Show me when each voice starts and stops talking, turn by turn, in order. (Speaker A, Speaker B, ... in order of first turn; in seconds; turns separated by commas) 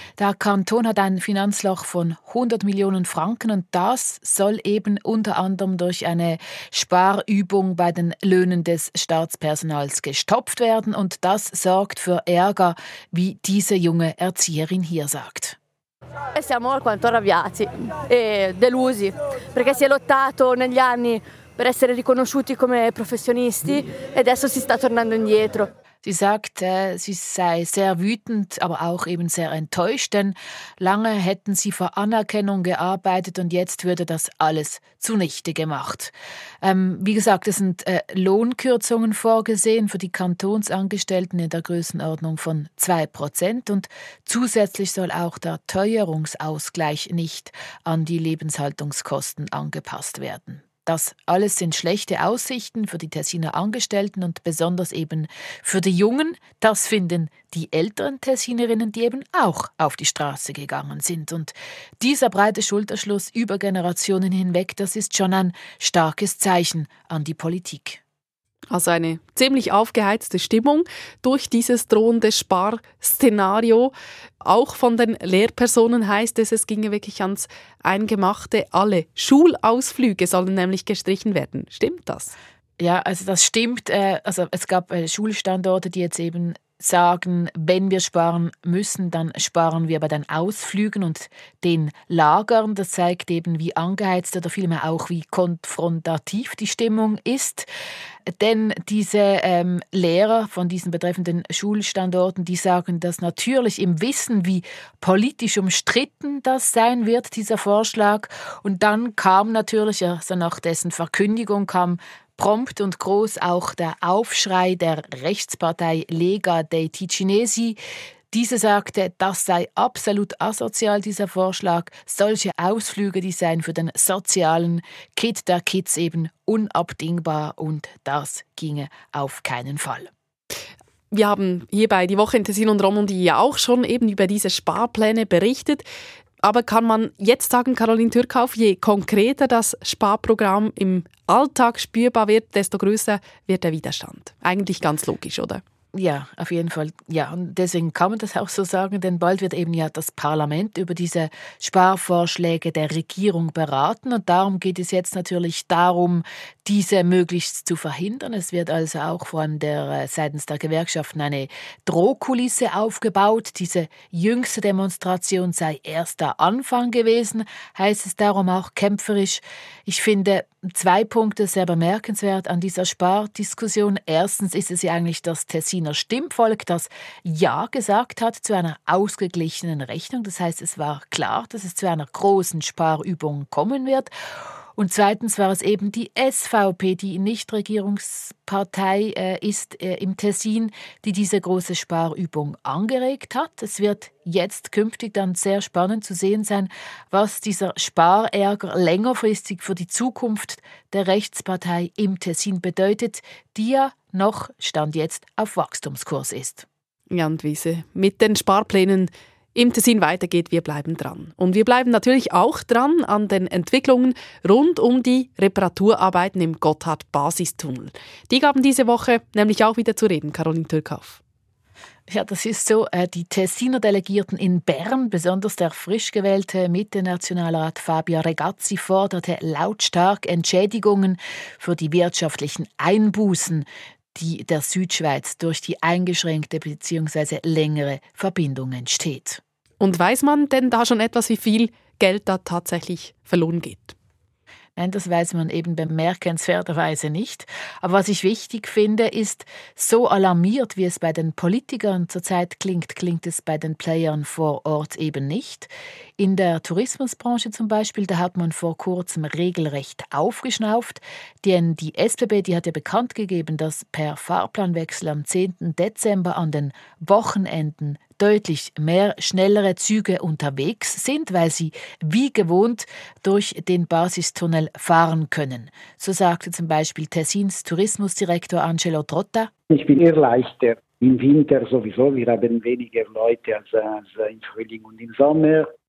Speaker A: 0.2-15.6, Speaker B: 16.4-25.7, Speaker A: 26.0-68.0, Speaker C: 68.7-82.3, Speaker A: 82.8-97.7, Speaker A: 98.3-117.8, Speaker A: 118.3-130.1, Speaker C: 131.1-135.9, Speaker C: 136.4-145.6, Speaker A: 145.9-184.1, Speaker A: 184.8-206.7, Speaker C: 207.1-221.2, Speaker A: 222.1-239.4, Speaker C: 239.8-243.9, Speaker A: 244.8-279.5, Speaker D: 279.7-285.7